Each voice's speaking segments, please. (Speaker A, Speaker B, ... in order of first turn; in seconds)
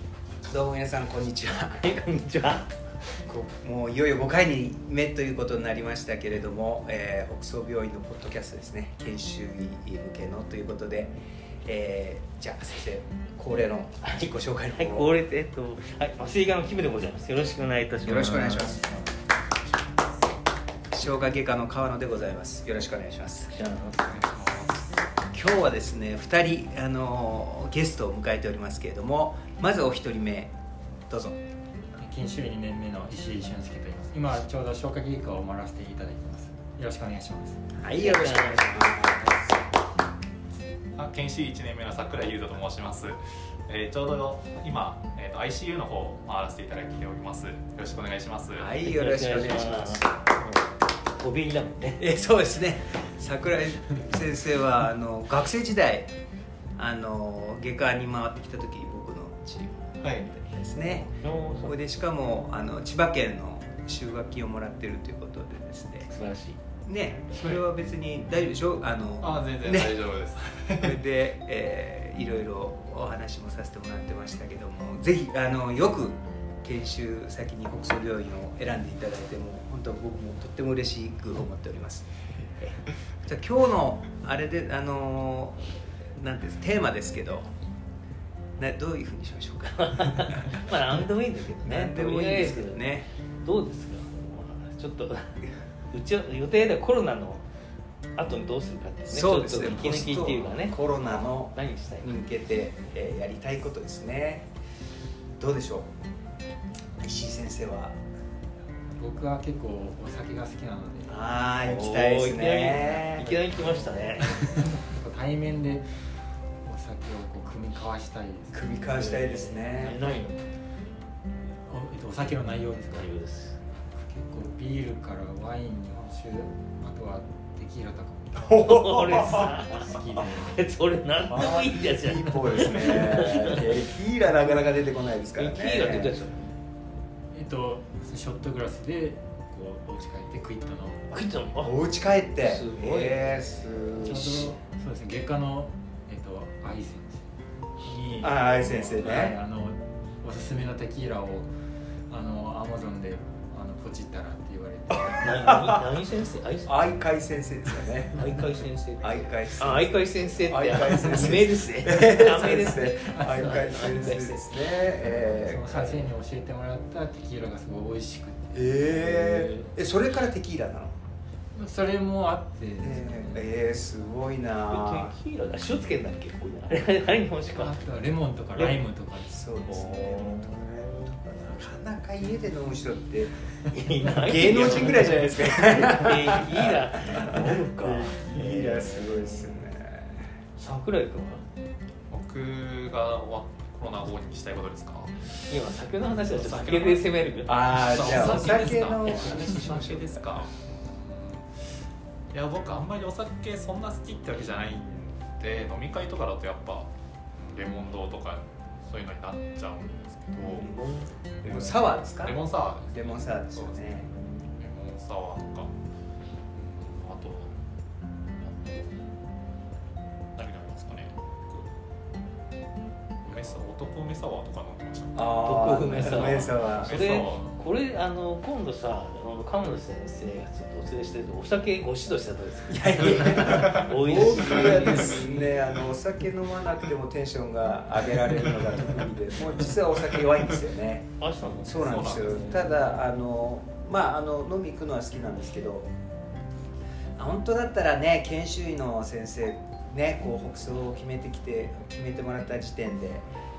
Speaker A: 0.5-1.8, 3.2-15.1, 18.0-18.9, 20.9-23.5, 25.3-30.5, 31.1-31.4, 37.8-39.5, 48.5-50.1, 52.0-56.1, 56.8-66.1, 66.8-69.9, 70.8-87.5, 88.6-90.5, 91.6-93.1, 99.1-104.5, 105.4-105.9, 107.0-108.0, 111.0-113.4, 118.5-120.0, 128.4-129.6, 131.3-136.1, 141.6-144.6, 148.2-149.3, 155.1-155.8, 156.7-158.3, 159.0-166.0, 168.5-171.0, 172.8-175.1, 179.3-183.4, 184.2-190.3, 197.4-200.2, 210.4-210.8, 211.4-214.2, 225.1-227.2, 232.7-245.9, 247.2-253.2
Speaker B: 1.8-2.7, 14.0-19.1, 23.5-24.1, 37.9-39.1, 48.8-50.1, 51.1-52.0, 61.2-61.8, 66.1-66.6, 89.8-92.8, 93.4-97.5, 98.2-102.2, 111.6-114.6, 118.9-120.4, 122.9-123.6, 128.4-133.7, 135.4-136.5, 141.1-141.8, 142.4-144.6, 147.8-149.3, 155.1-156.9, 158.1-164.5, 169.0-169.7, 174.7-177.8, 179.6-181.4, 183.7-189.7, 190.6-191.4, 195.5-198.4, 210.4-211.8, 225.4-235.6, 241.2-243.0
Speaker C: 24.1-24.7, 32.0-37.6, 109.0-111.2, 114.9-116.0, 116.6-118.6, 121.7-123.1, 123.9-128.5, 129.0-130.6, 137.3-141.2, 144.1-147.3, 148.8-151.5, 152.1-155.4, 163.0-164.2, 164.9-168.9, 171.5-173.5, 177.5-179.5
Speaker D: 24.3-24.7, 41.0-48.7, 60.0-60.3, 69.2-71.0, 192.1-195.5, 196.1-197.1, 197.7-210.7, 211.5-215.7, 216.5-217.6, 218.3-219.1, 220.3-221.7, 223.2-225.4, 226.0-227.4, 234.6-235.3, 241.8-242.6